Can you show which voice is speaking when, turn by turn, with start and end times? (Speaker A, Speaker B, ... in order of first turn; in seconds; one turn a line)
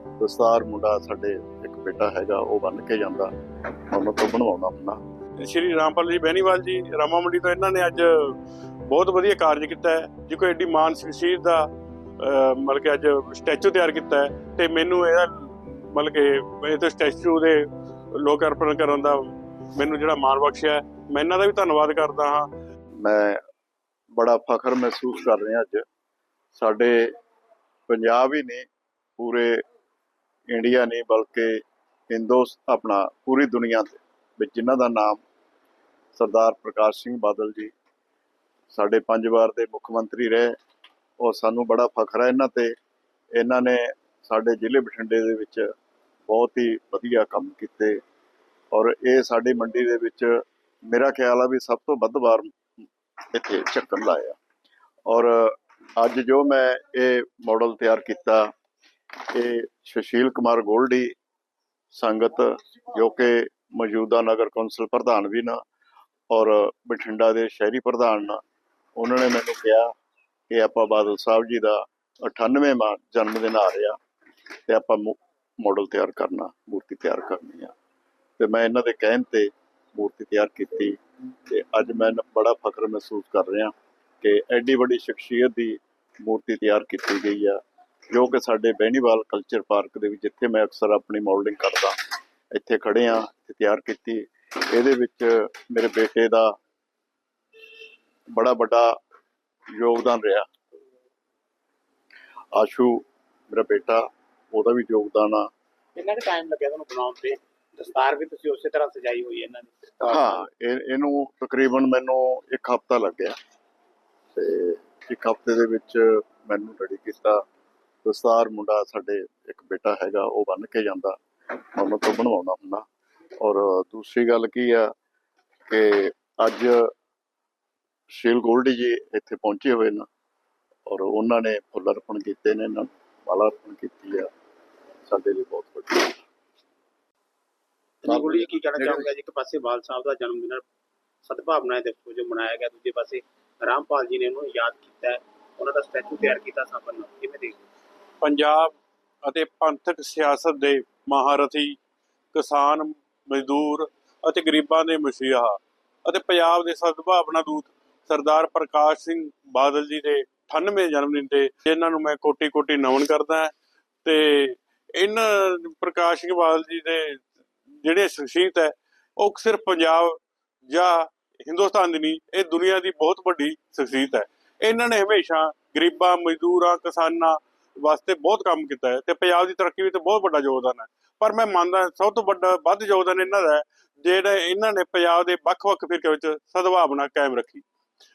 Speaker A: 0.2-3.3
Speaker A: 3.9-5.0
Speaker B: 5.4-22.5
Speaker A: 23.0-23.4
Speaker A: 24.2-25.8
Speaker A: 26.5-27.1
Speaker A: 27.9-28.6
Speaker A: 29.2-29.6
Speaker A: 30.5-31.6
Speaker A: 32.1-35.2
Speaker A: 36.1-37.7
Speaker A: 38.7-40.5
Speaker A: 41.2-42.7
Speaker A: 43.4-45.6
Speaker A: 46.3-48.0
Speaker A: 48.7-52.5
Speaker A: 53.3-54.4
Speaker A: 55.1-58.5
Speaker A: 59.3-61.1
Speaker A: 61.9-65.6
Speaker A: 66.3-68.4
Speaker A: 69.0-69.9
Speaker A: 70.5-74.0
Speaker A: 74.7-77.7
Speaker A: 78.4-92.0
Speaker A: 92.5-96.5
Speaker A: 98.3-98.9
Speaker A: 99.8-100.5
Speaker A: 102.5-105.5
Speaker C: 106.0-110.4
Speaker A: 110.0-113.3
Speaker A: 114.3-117.4
Speaker A: 118.0-121.2
Speaker A: 121.7-122.8
Speaker A: 123.4-124.9
Speaker A: 125.7-126.9
Speaker A: 128.1-130.1
Speaker A: 130.9-134.3
Speaker A: 135.1-136.2
Speaker C: 138.0-140.6
Speaker A: 138.1-139.0
Speaker C: 141.2-147.6
Speaker B: 148.2-151.8
Speaker B: 152.3-187.6